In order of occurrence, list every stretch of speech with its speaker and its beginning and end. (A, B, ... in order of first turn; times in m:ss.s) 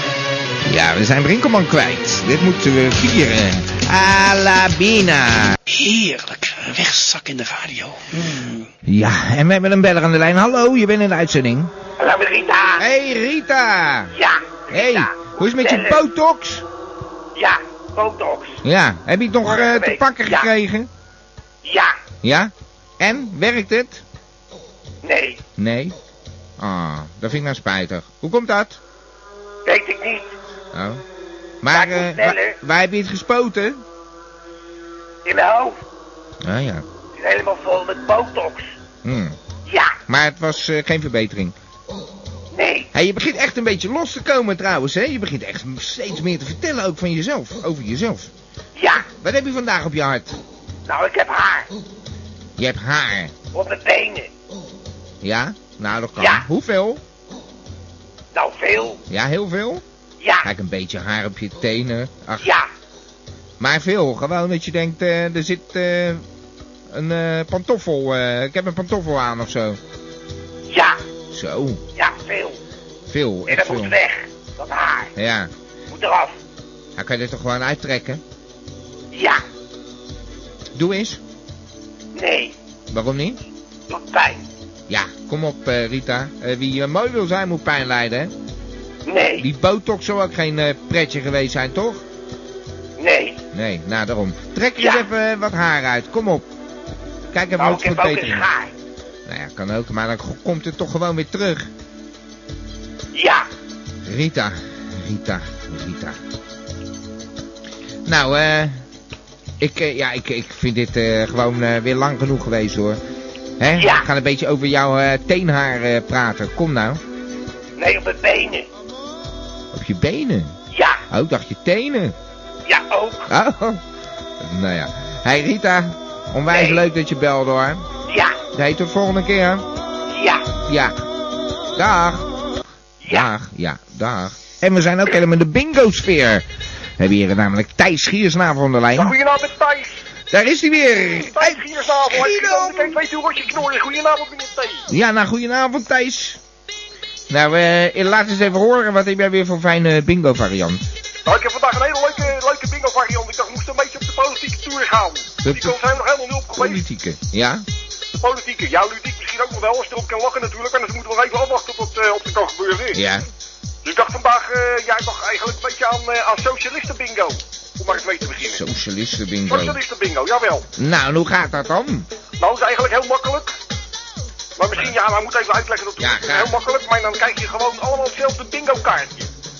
0:00.6-0:05.6 A
0:05.7-0:08.7 B
0:08.8-0:11.7 A
0:12.0-0:12.8 C
0:12.8-0:14.1 A
0:14.1-0:16.0 C
0:14.7-0:16.6 A
0:17.3-0:18.6 C
0:18.6-0:20.9 A
0:19.4-0:20.5 C
0:21.6-0:21.9 C
0:22.2-0:24.0 A
0:25.0-0:25.4 C
0:25.6-0:26.0 A
0:26.6-0:28.8 A
0:29.6-0:30.3 C
0:30.7-0:31.0 A
0:31.6-0:33.8 A
0:31.7-0:32.6 C
0:35.2-0:35.8 C
0:36.4-0:36.8 A
0:37.2-0:38.7 C
0:39.0-0:39.4 A
0:39.6-0:40.0 C
0:40.1-0:41.5 A
0:42.5-0:42.9 C
0:42.9-0:48.3 A
0:48.8-0:49.1 C
0:49.2-0:50.4 A
0:50.9-0:51.7 C
0:52.6-0:53.3 A
0:53.5-0:54.3 C
0:55.2-0:57.0 A
0:56.2-0:56.4 C
0:58.3-0:59.0 C
0:59.1-0:59.8 A
1:00.2-1:00.5 C
1:00.4-1:02.5 A
1:02.4-1:02.7 C
1:03.6-1:06.2 A
1:06.9-1:09.8 A
1:10.7-1:11.0 C
1:11.3-1:11.8 A
1:12.0-1:12.6 C
1:13.1-1:13.9 A
1:13.5-1:15.1 C
1:15.2-1:15.5 A
1:15.9-1:16.4 C
1:17.0-1:18.2 A
1:19.1-1:19.4 C
1:20.7-1:21.2 A
1:22.1-1:22.5 C
1:22.9-1:23.4 A
1:23.9-1:24.4 C
1:24.9-1:28.3 A
1:29.0-1:29.4 C
1:29.4-1:32.0 A
1:33.0-1:33.4 C
1:33.5-1:36.4 A
1:34.8-1:35.0 C
1:37.3-1:38.4 A
1:37.6-1:38.7 C
1:39.2-1:41.7 A
1:43.1-1:43.5 C
1:44.0-1:46.2 A
1:48.0-1:48.8 A
1:49.6-1:53.0 A
1:53.6-1:57.0 A
1:53.8-1:54.0 C
1:57.8-1:58.7 C
1:59.7-2:00.5 A
2:00.7-2:01.0 C
2:01.1-2:02.1 A
2:02.7-2:03.3 C
2:03.3-2:03.8 A
2:04.4-2:07.8 A
2:06.5-2:06.8 C
2:08.1-2:08.4 C
2:08.5-2:09.6 A
2:10.1-2:10.5 C
2:10.7-2:11.0 A
2:11.7-2:12.3 A
2:13.0-2:13.3 C
2:13.1-2:16.4 A
2:17.0-2:19.2 A
2:19.0-2:20.0 D
2:20.3-2:23.0 A
2:21.1-2:24.8 D
2:24.9-2:26.4 A
2:27.3-2:30.8 A
2:31.2-2:36.8 D
2:35.4-2:35.8 A
2:36.5-2:37.6 A
2:38.2-2:43.0 D
2:42.9-2:43.2 A
2:43.8-2:48.6 D
2:48.4-2:49.8 A
2:49.5-2:50.6 D
2:50.8-2:52.1 A
2:52.4-2:53.5 D
2:54.6-2:59.3 D
2:56.0-2:56.5 A